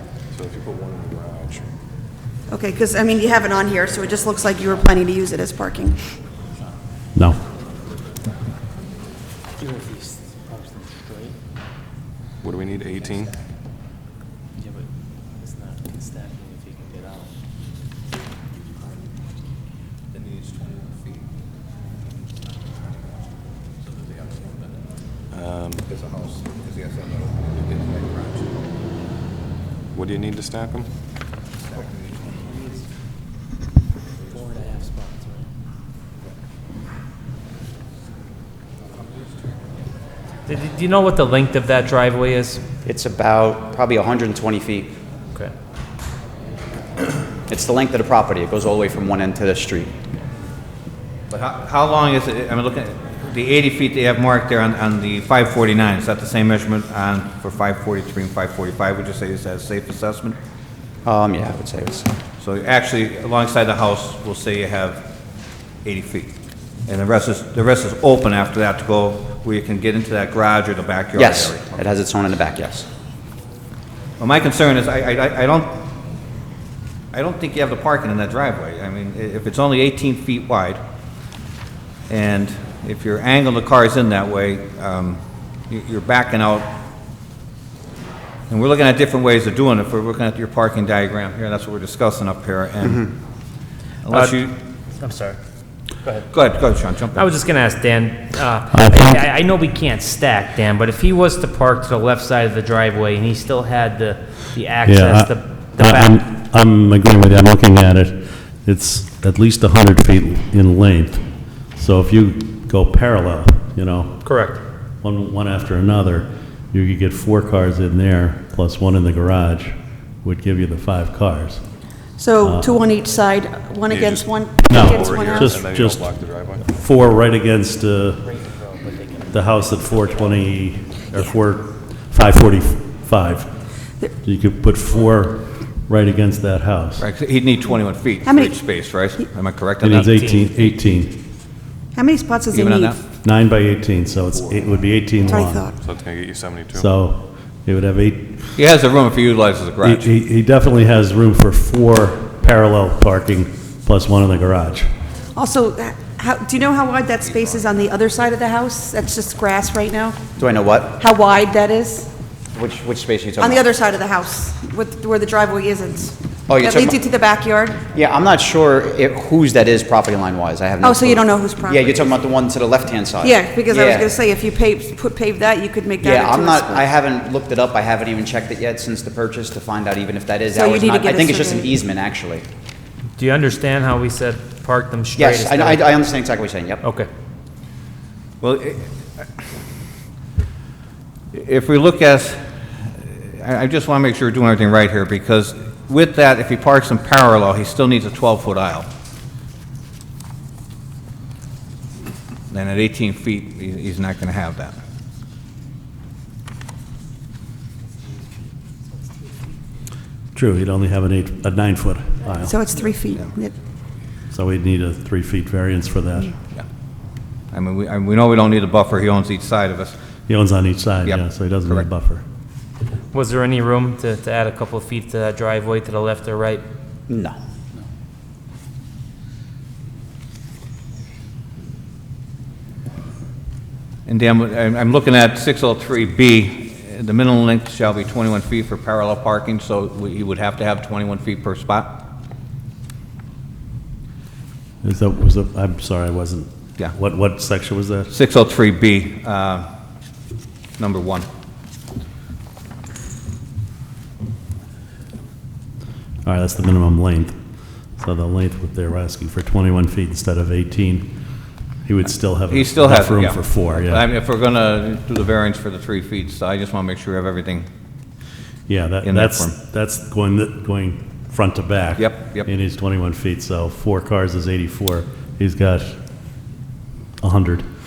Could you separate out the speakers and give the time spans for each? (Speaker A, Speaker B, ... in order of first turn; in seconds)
Speaker A: 0.3-1.7, 12.4-13.4, 25.3-25.9, 29.9-30.9, 123.9-126.7, 145.8-146.9
Speaker B: 2.5-6.0, 122.2-125.5, 138.2-138.6, 141.9-143.0, 145.3-145.8, 155.3-160.2, 161.0-162.1, 163.4-167.8, 170.8-172.1, 173.2-176.9, 180.5-181.7, 212.5-213.5
Speaker C: 7.2-7.4, 98.7-99.3, 104.8-114.2, 115.0-121.6, 122.4-122.8, 124.7-126.1, 126.6-128.3, 129.3-133.5, 134.2-137.1, 139.8-141.2, 143.2-145.7, 146.8-148.5, 149.8-154.9, 210.3-212.6, 214.3-216.3, 220.3-222.2, 244.8-248.1, 256.2-257.4, 258.0-261.1, 261.9-264.1, 268.7-276.0, 277.2-277.7
Speaker D: 9.6-11.4, 14.6-17.3, 34.3-35.5, 128.3-129.3
Speaker E: 25.9-28.3, 51.3-60.4, 62.4-65.0, 65.8-66.3, 66.9-71.8, 74.2-75.8, 77.1-80.8, 82.1-86.7, 88.5-93.1, 94.0-94.5, 96.3-97.3, 137.0-140.1, 142.5-143.0, 148.6-150.1, 157.3-157.7, 188.4-189.3, 191.3-198.9, 202.5-204.8, 217.5-219.9, 221.0-221.9, 234.1-242.1, 248.1-249.7, 250.8-251.3, 262.5-267.7, 269.0-269.5, 272.0-272.5
Speaker F: 40.5-42.6, 94.1-94.4, 95.0-95.4, 97.1-106.2, 114.2-114.6, 140.1-140.4, 183.2-185.9, 186.8-187.1, 223.1-226.7
Speaker G: 42.9-44.9, 47.5-49.9, 61.0-62.1, 71.2-72.9, 160.4-161.0, 162.5-163.6, 166.5-166.9, 167.9-174.1, 176.0-182.4, 185.2-186.8, 227.1-227.4